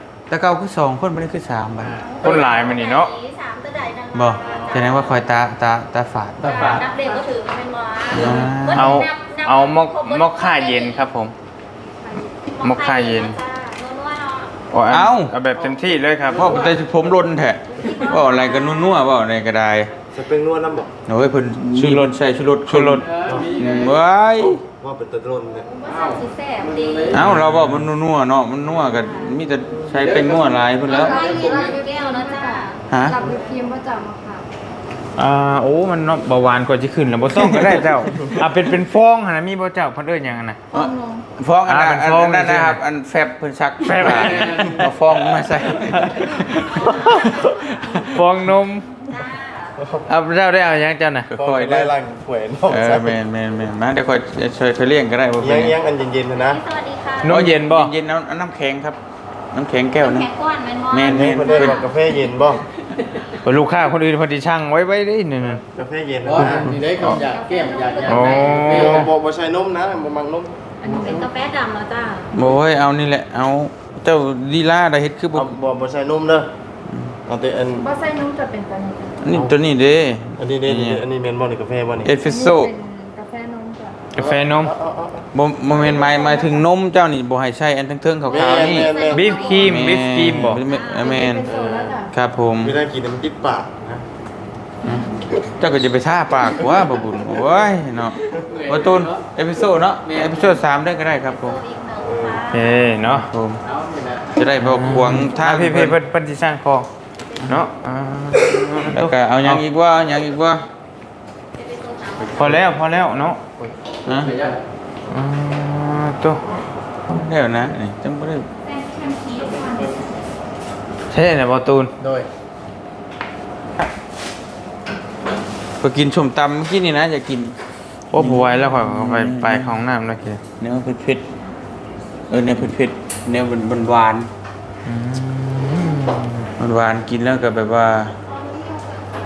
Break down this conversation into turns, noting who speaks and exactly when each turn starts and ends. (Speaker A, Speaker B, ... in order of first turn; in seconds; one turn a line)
Speaker A: 0.3-2.0
Speaker B: 1.8-2.7
Speaker C: 2.2-5.2
Speaker D: 2.2-3.1
Speaker A: 4.1-6.5
Speaker B: 4.4-4.8
Speaker B: 6.4-7.2
Speaker C: 6.4-11.0
Speaker A: 8.1-9.1
Speaker D: 8.7-11.3
Speaker C: 12.5-14.5
Speaker D: 12.6-13.4
Speaker D: 14.7-16.5
Speaker A: 14.9-15.3
Speaker B: 15.5-16.8
Speaker A: 16.3-19.9
Speaker C: 17.8-19.0
Speaker E: 20.1-20.9
Speaker A: 21.1-24.6
Speaker D: 21.7-22.1
Speaker D: 22.7-23.0
Speaker B: 23.0-24.0
Speaker E: 23.2-23.6
Speaker E: 24.6-25.7
Speaker C: 25.6-27.2
Speaker B: 25.9-27.2
Speaker A: 27.1-31.1
Speaker D: 27.2-27.7
Speaker B: 29.9-31.8
Speaker C: 30.9-32.8
Speaker F: 30.9-34.4
Speaker A: 32.9-33.2
Speaker D: 35.2-40.6
Speaker A: 37.3-37.9
Speaker F: 40.7-41.2
Speaker A: 40.7-46.9
Speaker D: 41.7-42.8
Speaker B: 44.0-44.9
Speaker D: 44.0-49.0
Speaker C: 46.9-47.5
Speaker C: 49.1-49.7
Speaker E: 49.8-50.0
Speaker D: 50.1-51.3
Speaker A: 51.3-51.9
Speaker E: 51.3-53.1
Speaker A: 52.7-55.7
Speaker E: 55.4-56.6
Speaker C: 56.4-57.3
Speaker D: 57.2-57.9
Speaker A: 57.3-59.0
Speaker A: 59.5-60.3
Speaker C: 60.0-61.9
Speaker A: 60.9-61.8
Speaker E: 61.0-62.6
Speaker D: 63.4-65.6
Speaker E: 65.7-66.6
Speaker B: 66.2-69.1
Speaker D: 66.4-67.2
Speaker F: 67.1-68.6
Speaker D: 68.1-69.0
Speaker E: 68.6-70.6
Speaker F: 70.8-71.3
Speaker B: 70.8-71.2
Speaker C: 70.8-72.3
Speaker A: 72.3-75.5
Speaker E: 75.3-76.5
Speaker A: 76.9-77.1
Speaker E: 77.3-77.9
Speaker F: 77.8-79.2
Speaker A: 79.2-81.0
Speaker E: 80.4-82.1
Speaker A: 82.0-82.7
Speaker F: 82.2-84.0
Speaker D: 84.1-84.7
Speaker E: 84.2-85.2
Speaker A: 85.3-88.9
Speaker E: 88.3-89.5
Speaker C: 88.3-89.9
Speaker D: 89.0-90.6
Speaker A: 89.5-91.5
Speaker C: 90.5-91.5
Speaker F: 91.0-92.1
Speaker E: 91.5-92.0
Speaker A: 92.1-92.8
Speaker E: 92.6-94.0
Speaker A: 95.6-101.6
Speaker B: 98.3-99.2
Speaker B: 100.0-100.6
Speaker C: 101.2-102.9
Speaker E: 102.0-102.5
Speaker D: 102.5-103.3
Speaker A: 103.0-103.6
Speaker B: 103.6-104.4
Speaker A: 104.3-106.0
Speaker D: 104.6-106.9
Speaker D: 107.5-109.6
Speaker A: 108.9-110.7
Speaker C: 111.5-112.6
Speaker D: 112.3-113.4
Speaker B: 113.6-114.6
Speaker A: 114.0-114.3
Speaker D: 115.1-116.4
Speaker A: 117.1-118.5
Speaker C: 118.6-120.0
Speaker F: 118.8-119.8
Speaker D: 121.1-121.9
Speaker B: 122.0-122.3
Speaker A: 125.8-127.5
Speaker D: 128.1-130.4
Speaker A: 128.1-129.8
Speaker A: 130.6-131.3
Speaker A: 132.3-134.3
Speaker D: 134.8-136.5
Speaker A: 136.6-138.1
Speaker C: 138.3-138.9